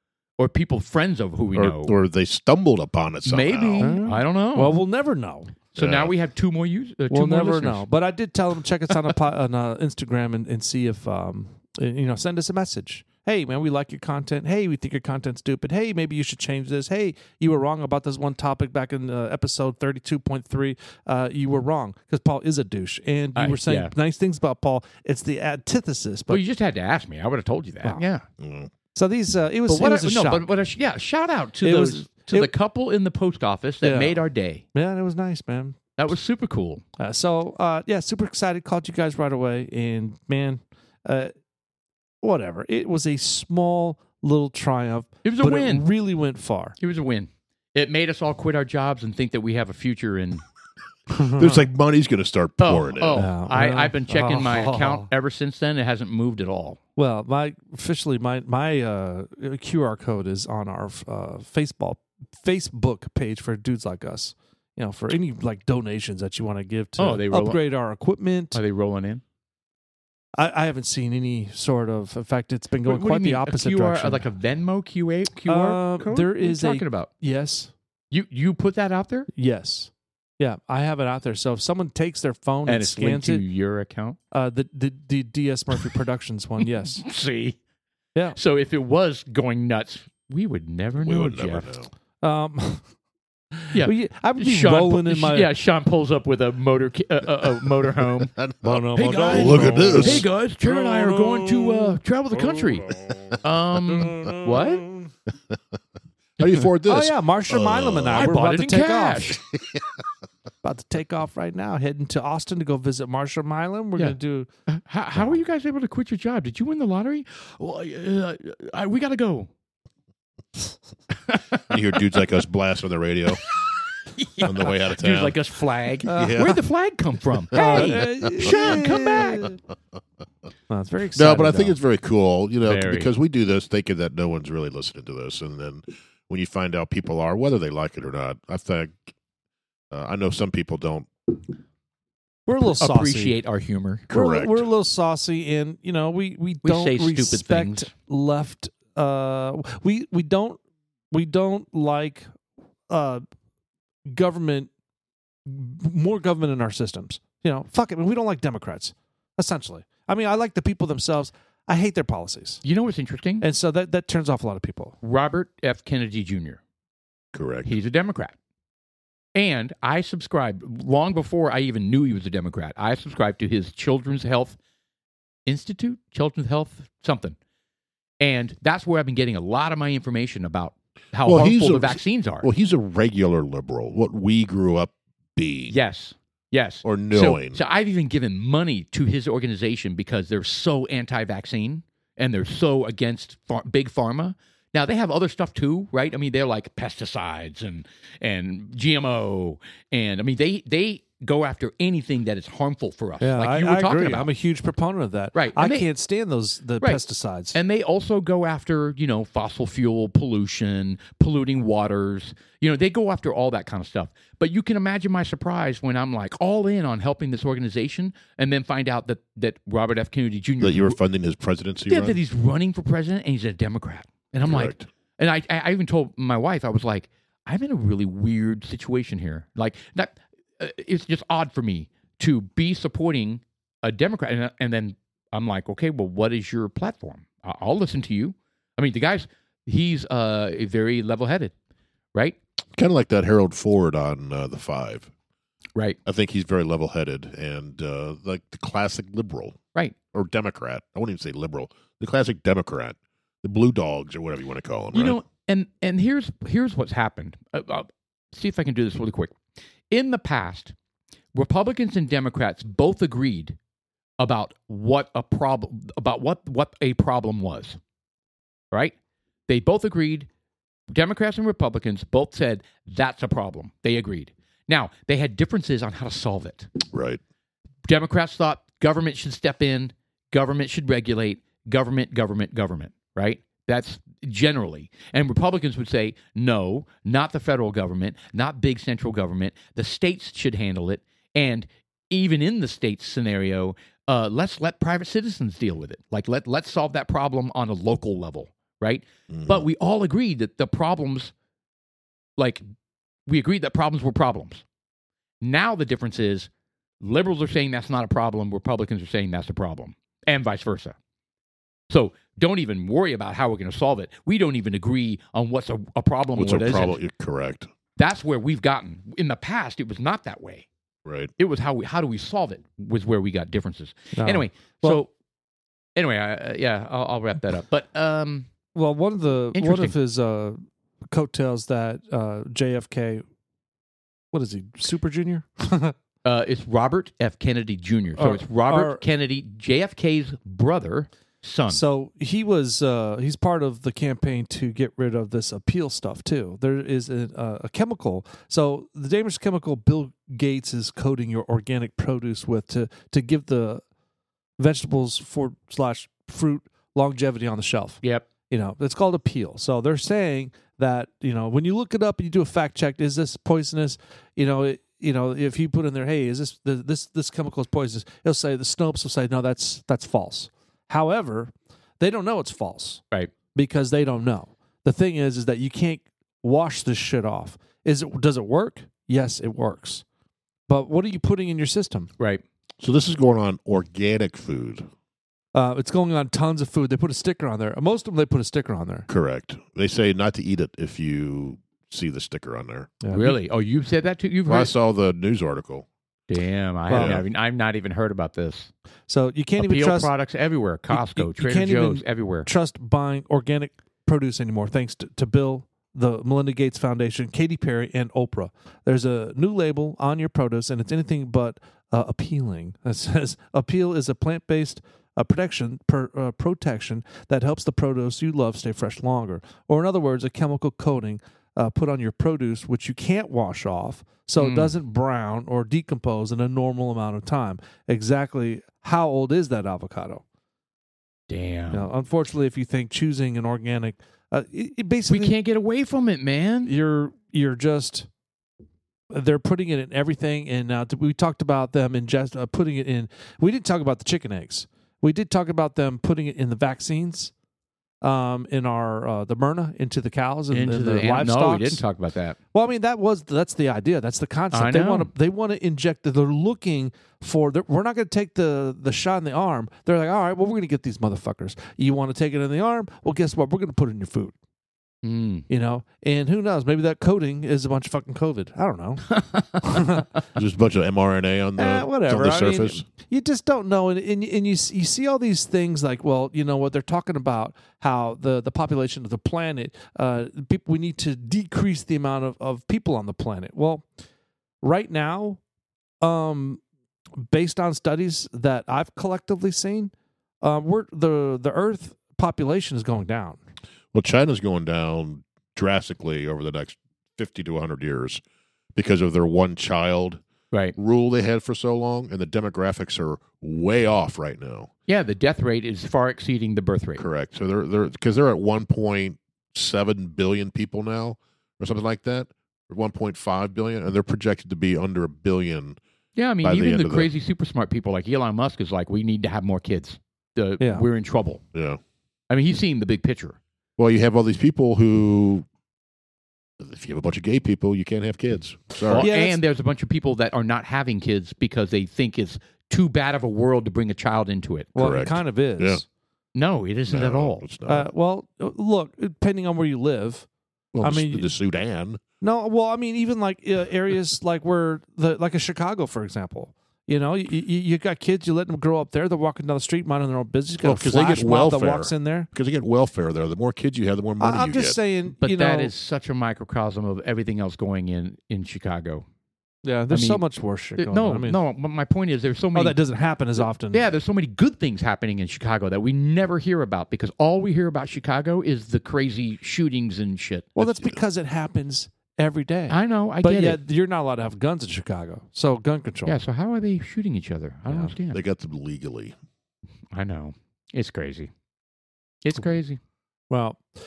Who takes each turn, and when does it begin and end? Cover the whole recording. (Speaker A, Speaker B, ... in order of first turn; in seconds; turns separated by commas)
Speaker A: 0.4-2.0, Speaker B: 1.5-3.9, Speaker A: 3.2-4.8, Speaker C: 3.8-5.5, Speaker A: 5.7-7.8, Speaker B: 5.8-6.1, Speaker C: 7.1-26.4, Speaker A: 23.4-23.9, Speaker A: 26.3-28.2, Speaker B: 28.4-28.7, Speaker C: 28.9-30.5, Speaker A: 29.7-34.6, Speaker C: 31.6-32.5, Speaker C: 33.8-34.2, Speaker C: 34.7-35.8, Speaker A: 36.0-36.8, Speaker C: 37.0-41.3, Speaker C: 42.2-46.8, Speaker A: 45.2-45.8, Speaker A: 46.8-50.4, Speaker C: 51.1-51.6, Speaker B: 51.3-53.3, Speaker A: 52.6-56.8, Speaker C: 53.1-55.1, Speaker C: 57.0-68.6, Speaker A: 67.0-67.6, Speaker A: 68.5-69.2, Speaker C: 70.4-74.3, Speaker A: 72.8-77.1, Speaker C: 75.5-77.7, Speaker A: 78.1-79.3, Speaker C: 79.3-83.4, Speaker A: 82.7-84.2, Speaker C: 84.3-87.0, Speaker A: 86.8-87.6, Speaker A: 88.3-91.7, Speaker B: 91.0-91.9, Speaker C: 92.2-92.8, Speaker C: 93.5-95.5, Speaker A: 93.7-98.3, Speaker B: 98.2-100.3, Speaker C: 98.6-102.0, Speaker A: 98.9-104.9, Speaker B: 103.1-103.4, Speaker C: 104.0-104.9, Speaker B: 106.4-108.3, Speaker C: 106.8-109.4, Speaker A: 108.1-109.4, Speaker B: 109.5-109.8, Speaker C: 110.6-114.5, Speaker A: 114.7-119.5, Speaker A: 121.3-121.7, Speaker B: 121.7-123.4, Speaker A: 124.1-129.5, Speaker B: 124.4-125.3, Speaker B: 126.0-126.6, Speaker C: 126.1-126.5, Speaker B: 127.5-129.3, Speaker C: 127.5-129.6, Speaker C: 130.7-131.8, Speaker B: 131.1-139.1, Speaker A: 132.6-133.1, Speaker B: 139.9-141.1, Speaker C: 142.5-143.4, Speaker A: 142.6-144.1, Speaker B: 144.1-144.7, Speaker C: 144.1-150.6, Speaker A: 146.6-147.9, Speaker C: 151.1-152.3, Speaker C: 152.9-153.2, Speaker C: 154.1-154.7, Speaker C: 155.4-162.6, Speaker A: 162.6-163.4, Speaker C: 163.4-165.0, Speaker A: 165.0-166.6, Speaker B: 167.3-167.7, Speaker A: 167.6-168.3, Speaker A: 169.3-174.6, Speaker A: 175.4-177.4, Speaker A: 178.2-182.5, Speaker B: 181.2-185.8, Speaker A: 185.7-204.3, Speaker B: 186.8-187.6, Speaker C: 203.2-207.6, Speaker A: 205.3-205.9, Speaker A: 207.5-221.0, Speaker B: 220.6-222.2, Speaker A: 221.9-241.5, Speaker B: 224.4-224.9, Speaker B: 242.7-245.1, Speaker B: 246.1-249.6, Speaker B: 250.1-255.2, Speaker A: 254.9-259.4, Speaker A: 259.9-260.7, Speaker A: 261.3-263.6, Speaker A: 264.2-267.8, Speaker A: 269.5-270.3, Speaker A: 270.9-276.7, Speaker B: 276.9-277.2, Speaker A: 277.9-301.3, Speaker B: 299.3-299.6, Speaker A: 302.4-302.6, Speaker A: 303.3-304.6, Speaker A: 305.4-306.5, Speaker A: 307.0-310.9, Speaker A: 311.9-317.0, Speaker B: 316.4-317.7, Speaker A: 318.0-320.7, Speaker B: 321.0-321.3, Speaker A: 321.4-325.1, Speaker C: 324.1-325.0, Speaker A: 325.9-328.5, Speaker C: 328.7-330.6, Speaker A: 329.5-329.9, Speaker C: 331.1-333.2, Speaker C: 334.3-335.9, Speaker A: 336.2-341.8, Speaker C: 338.1-339.0, Speaker C: 341.7-353.8, Speaker C: 354.6-373.0, Speaker C: 373.5-380.0, Speaker C: 380.7-382.1, Speaker B: 382.8-384.9, Speaker C: 385.5-389.1, Speaker B: 389.1-392.9, Speaker C: 393.0-393.4, Speaker A: 393.1-394.7, Speaker B: 394.5-395.9, Speaker A: 396.3-398.7, Speaker C: 396.9-397.2, Speaker B: 396.9-397.2, Speaker C: 399.1-400.1, Speaker A: 399.6-402.5, Speaker C: 400.9-430.2, Speaker A: 424.4-424.7, Speaker A: 431.3-431.9, Speaker C: 431.7-435.4, Speaker A: 435.1-436.7, Speaker C: 436.6-438.1, Speaker C: 439.1-447.3, Speaker C: 448.0-451.8, Speaker A: 450.5-452.4, Speaker C: 452.5-464.3, Speaker A: 454.5-455.1, Speaker A: 465.0-465.4, Speaker C: 465.5-470.1, Speaker A: 469.1-470.0, Speaker B: 470.3-472.9, Speaker C: 471.6-483.8, Speaker C: 484.6-485.4, Speaker C: 486.0-486.6, Speaker C: 487.3-493.4, Speaker B: 493.9-498.2, Speaker B: 498.7-500.2, Speaker B: 500.8-504.7, Speaker A: 504.9-507.0, Speaker B: 507.0-515.8, Speaker A: 516.1-521.4, Speaker B: 516.4-517.1, Speaker C: 520.6-520.9, Speaker B: 521.5-521.8, Speaker A: 522.3-523.4, Speaker B: 523.8-525.5, Speaker B: 526.6-529.1, Speaker C: 528.8-529.4, Speaker A: 528.9-534.7, Speaker C: 534.7-535.8, Speaker B: 534.8-535.8, Speaker A: 536.3-537.4, Speaker B: 536.9-537.9, Speaker C: 537.7-540.2, Speaker B: 540.7-542.0, Speaker C: 540.8-541.3, Speaker C: 542.2-552.3, Speaker B: 550.6-554.8, Speaker C: 554.2-555.7, Speaker A: 555.2-559.0, Speaker C: 559.6-561.4, Speaker A: 559.9-560.2, Speaker A: 560.8-562.8, Speaker C: 562.5-563.9, Speaker A: 563.4-570.5, Speaker C: 570.5-576.1, Speaker B: 570.6-571.0, Speaker A: 572.7-573.6, Speaker A: 576.0-578.2, Speaker B: 578.1-579.1, Speaker A: 579.9-581.3, Speaker A: 582.2-582.8, Speaker C: 583.3-583.6